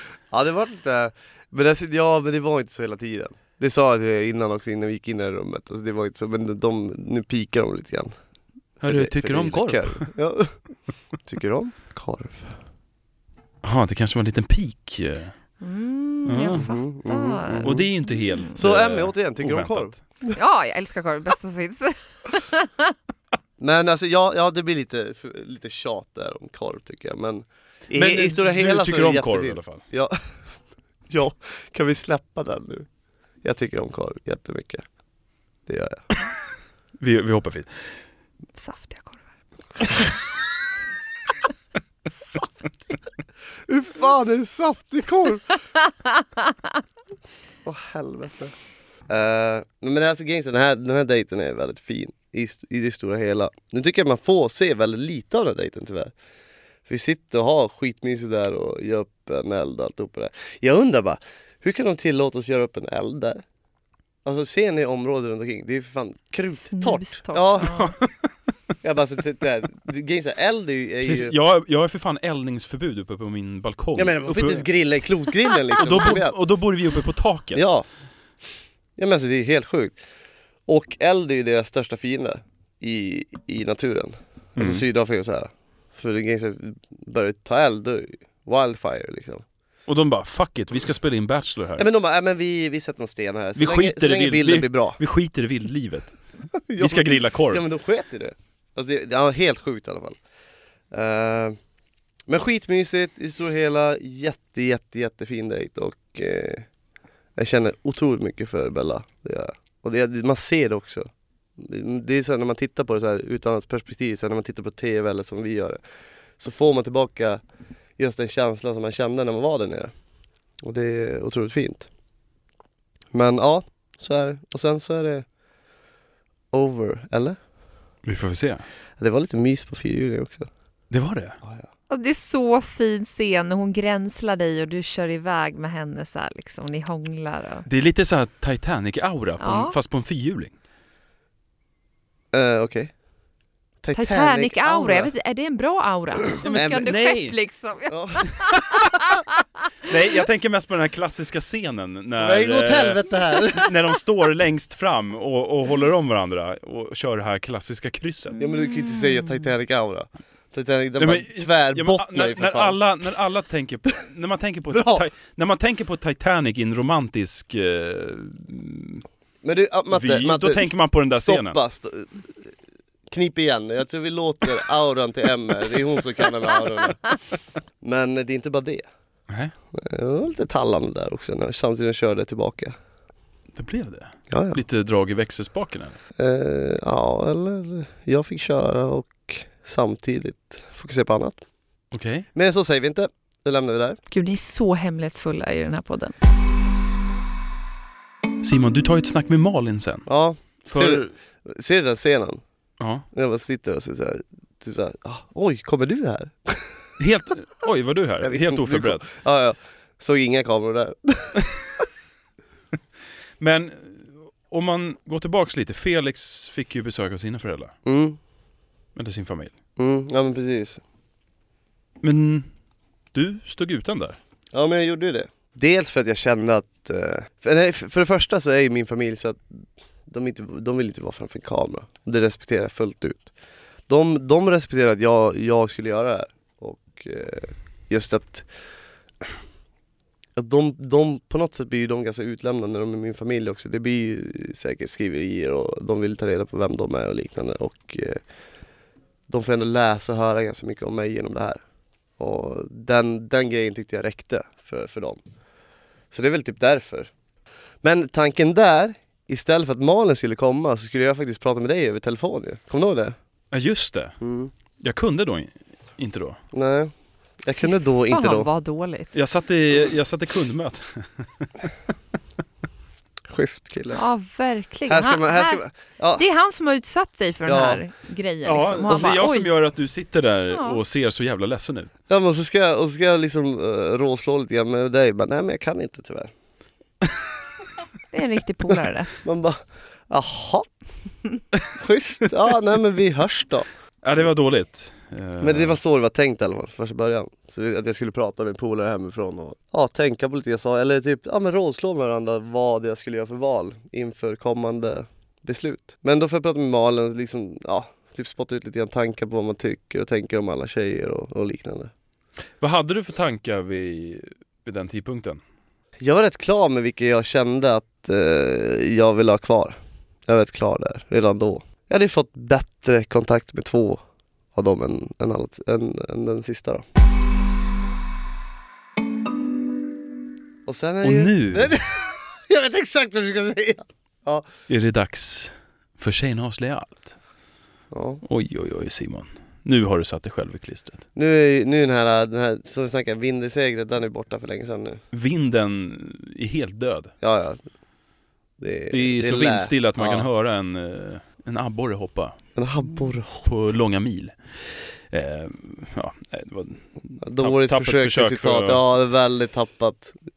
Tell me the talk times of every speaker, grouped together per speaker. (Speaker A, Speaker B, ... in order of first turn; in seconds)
Speaker A: 0.3-8.1, 8.8-10.6, 11.2-12.6, 16.5-17.9, 18.6-19.9, 23.6-30.2, 31.1-32.9, 33.4-34.9, 35.7-36.0, 43.6-45.5, 47.6-48.5, 49.1-56.1, 56.9-63.4, 64.2-67.7, 68.8-71.3, 74.0-76.4, 77.5-77.9, 79.0-80.0, 80.7-89.5, 91.8-95.0, 96.7-100.2, 100.9-101.6, 102.3-106.7, 107.4-115.8, 116.4-117.4, 118.0-119.9, 120.6-121.9, 123.1-125.3, 126.5-127.4, 129.0-130.5, 142.3-142.9, 143.8-145.1, 146.5-146.8, 147.9-148.6, 152.2-153.7, 158.4-162.8, 164.7-165.0, 169.4-172.6, 173.1-177.2, 177.8-178.9, 179.7-182.8, 184.3-184.6, 186.2-191.4, 192.3-194.0, 200.1-202.4, 203.1-206.9, 208.2-211.8, 217.9-218.2, 219.8-220.8, 224.5-233.3, 233.9-238.5, 240.4-248.2, 249.3-251.6, 252.2-255.2, 256.1-257.1, 257.8-263.2, 264.2-264.5, 266.5-268.5, 273.3-274.0, 274.9-276.3, 277.5-277.8, 282.1-286.3, 289.2-290.7, 291.7-293.7, 295.4-311.9, 316.0-324.0, 324.5-326.9, 330.7-334.5, 337.9-338.2, 341.2-345.0, 347.2-347.6, 348.6-350.3, 352.6-353.5, 357.2-360.2
Speaker B: 8.8-10.1, 13.6-15.4, 16.3-16.7, 17.6-20.0, 27.9-29.8, 37.0-37.7, 67.6-68.3, 71.0-74.7, 75.8-77.6, 84.6-84.8, 89.9-91.9, 93.6-96.2, 96.8-97.6, 128.1-128.7, 130.9-131.4, 137.7-140.5, 146.4-147.4, 149.9-158.3, 161.0-169.1, 169.9-171.6, 183.6-186.0, 191.9-192.3, 198.4-200.1, 200.7-201.1, 202.8-203.1, 207.0-209.1, 213.4-217.8, 219.0-219.5, 222.0-222.5, 223.1-224.2, 263.5-264.2, 264.8-266.4, 269.1-271.7, 278.4-281.9, 294.0-295.8, 312.6-315.4, 331.0-331.8, 334.7-337.1, 338.2-341.0, 345.1-347.1, 348.9-358.8
Speaker C: 15.6-17.8, 20.2-22.9, 38.6-39.2, 66.5-67.9, 131.9-137.7, 139.4-139.8, 143.9-149.0, 158.4-159.3, 194.1-196.2, 268.1-269.1, 273.9-275.6, 276.2-279.5, 280.5-280.8, 288.1-289.1